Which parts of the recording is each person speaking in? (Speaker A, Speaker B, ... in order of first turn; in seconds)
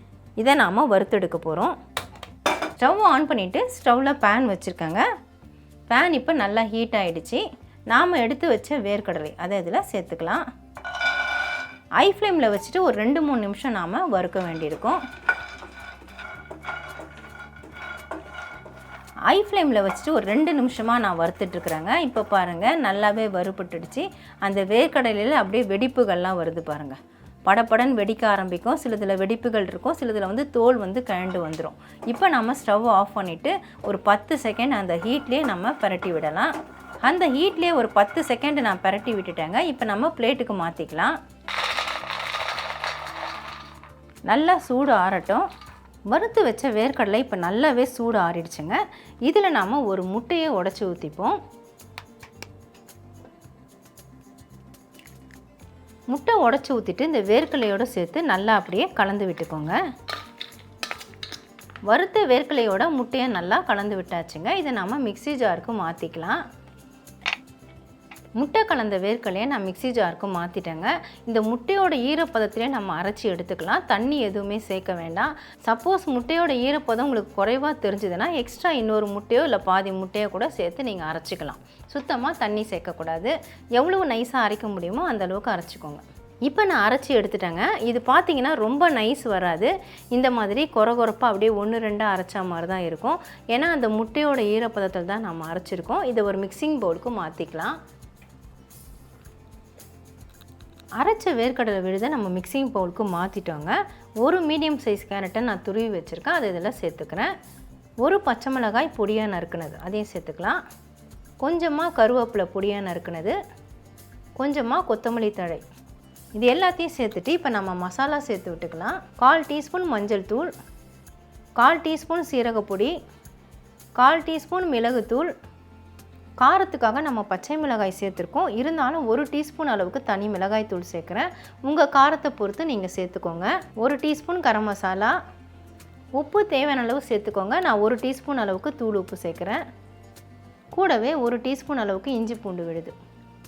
Speaker A: 0.4-1.7, 2.8-5.0, 5.9-10.4, 12.0-15.0, 19.3-36.5, 37.0-41.1, 44.3-45.5, 46.1-51.4, 56.1-59.8, 61.9-66.4, 68.4-97.8, 101.0-107.3, 108.0-110.6, 111.4-113.4, 114.4-115.6, 116.3-120.5, 121.6-122.9, 124.0-125.3, 126.4-135.2, 136.2-139.6, 140.7-142.9